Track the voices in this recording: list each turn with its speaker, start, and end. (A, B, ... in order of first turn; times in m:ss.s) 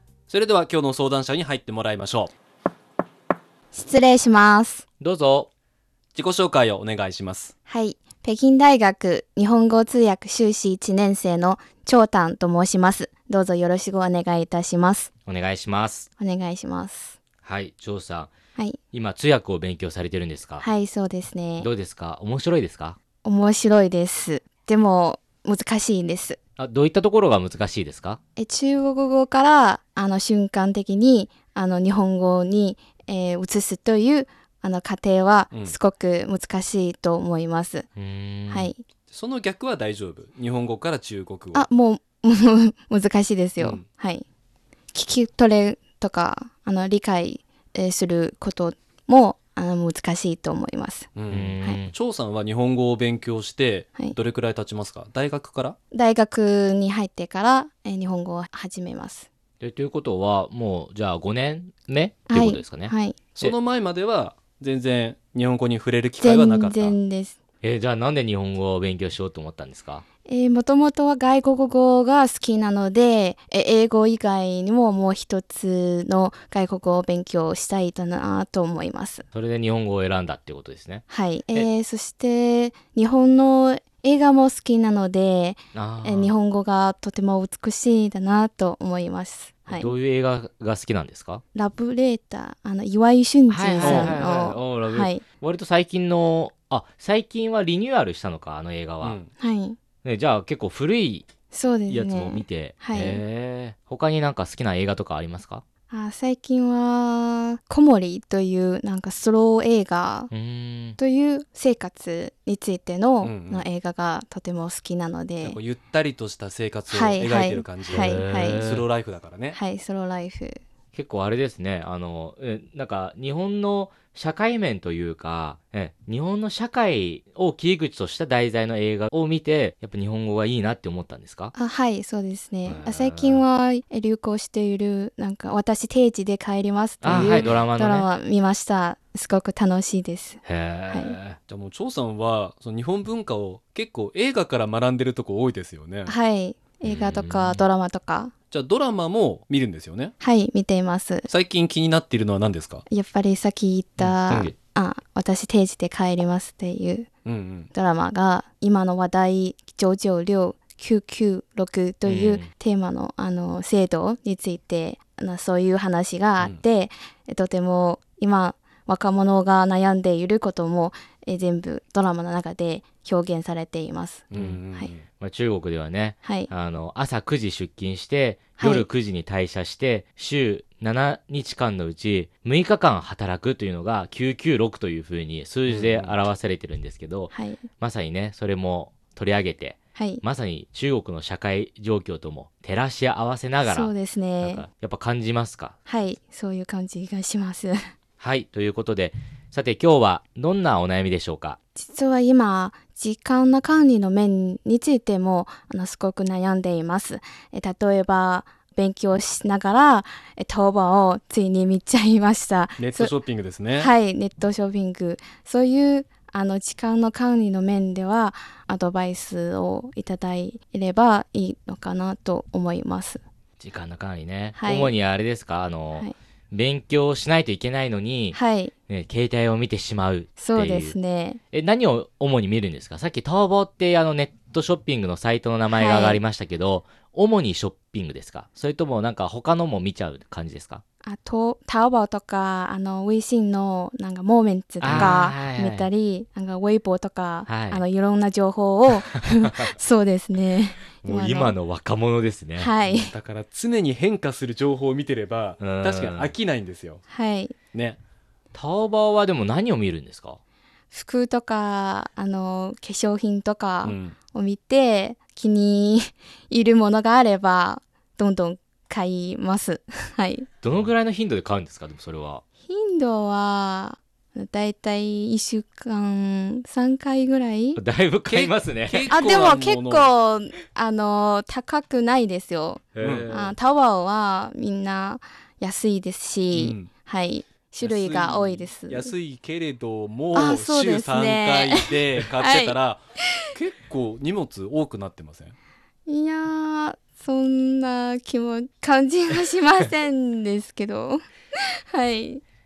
0:00.3-0:02.3 A
0:03.7-0:04.8 B
0:05.0-0:05.5 C
0:06.1-0:07.5 A
0:07.6-0:15.1 B
0:15.3-0:16.1 C
0:16.2-0:17.2 B
0:17.4-0:18.3 C
0:18.9-0:20.6 C
0:20.6-0:21.7 B
0:21.6-0:23.0 C
0:23.2-0:26.4 B
0:26.6-0:28.2 C
0:28.4-0:37.9 B
0:38.0-0:38.7 C
0:38.5-0:38.8 B
0:39.1-0:41.7 A
0:41.5-0:44.2 B
0:43.6-0:43.8 A
0:44.9-0:51.1 B
0:51.1-0:55.8 A
0:51.3-0:51.9 C
0:55.9-0:59.3 B
0:59.6-1:03.6 C
1:02.3-1:03.2 B
1:03.3-1:07.0 A
1:06.2-1:07.4 B
1:07.6-1:10.0 C
1:10.2-1:19.2 B
1:19.3-1:21.7 C
1:21.1-1:29.9 B
1:25.7-1:26.3 C
1:29.7-1:31.4 C
1:31.5-1:35.2 B
1:33.5-1:39.2 C
1:33.8-1:34.1 A
1:39.0-1:39.3 A
1:39.4-1:39.8 B
1:40.0-1:41.3 C
1:41.5-1:43.2 B
1:41.9-1:45.6 C
1:45.9-1:50.3 B
1:50.3-1:51.0 C
1:51.0-1:55.6 B
1:53.2-1:53.6 A
1:55.4-1:59.6 A
1:56.9-1:58.6 B
1:57.9-1:58.8 C
1:59.5-2:00.6 B
2:00.9-2:11.5 C
2:11.5-2:21.2 B
2:12.6-2:13.4 C
2:17.0-2:18.1 C
2:17.1-2:17.6 A
2:20.4-2:21.4 C
2:21.5-2:26.1 A
2:26.0-2:28.3 B
2:26.8-2:27.6 C
2:28.5-2:30.1 A
2:30.2-2:31.3 B
2:31.3-2:32.8 A
2:32.9-2:37.1 B
2:34.0-2:34.5 C
2:37.2-2:37.7 A
2:37.7-2:54.9 B
2:42.0-2:42.5 C
2:54.3-2:55.0 A
2:54.3-2:54.6 C
2:55.2-3:15.8 C
2:56.2-2:56.5 B
2:58.6-2:58.8 B
3:05.7-3:06.2 A
3:07.3-3:07.6 B
3:10.0-3:10.2 B
3:13.6-3:14.6 B
3:15.8-3:17.8 B
3:18.2-3:21.6 C
3:21.7-3:33.1 B
3:32.8-3:33.9 A
3:33.7-3:43.2 B
3:43.6-3:51.0 C
3:44.5-3:44.9 B
3:48.3-3:48.7 B
3:50.4-3:51.4 B
3:51.5-4:00.8 C
3:55.7-3:56.2 B
4:01.0-4:11.6 B
4:04.8-4:05.8 C
4:04.9-4:05.2 A
4:07.5-4:07.8 C
4:11.1-4:12.7 C
4:12.6-4:13.1 B
4:12.8-4:17.0 A
4:15.6-4:16.3 C
4:17.1-4:17.5 B
4:17.7-4:18.0 A
4:18.5-4:20.4 C
4:20.9-4:30.5 B
4:23.8-4:24.2 A
4:30.6-4:32.4 C
4:32.6-4:37.8 B
4:37.8-4:39.3 C
4:38.3-4:40.1 A
4:39.1-4:49.1 B
4:42.9-4:43.5 C
4:43.0-4:43.5 A
4:46.5-4:46.9 A
4:47.8-4:53.0 A
4:50.3-4:52.8 B
4:53.5-4:55.5 A
4:56.0-5:01.2 B
5:01.9-5:02.4 B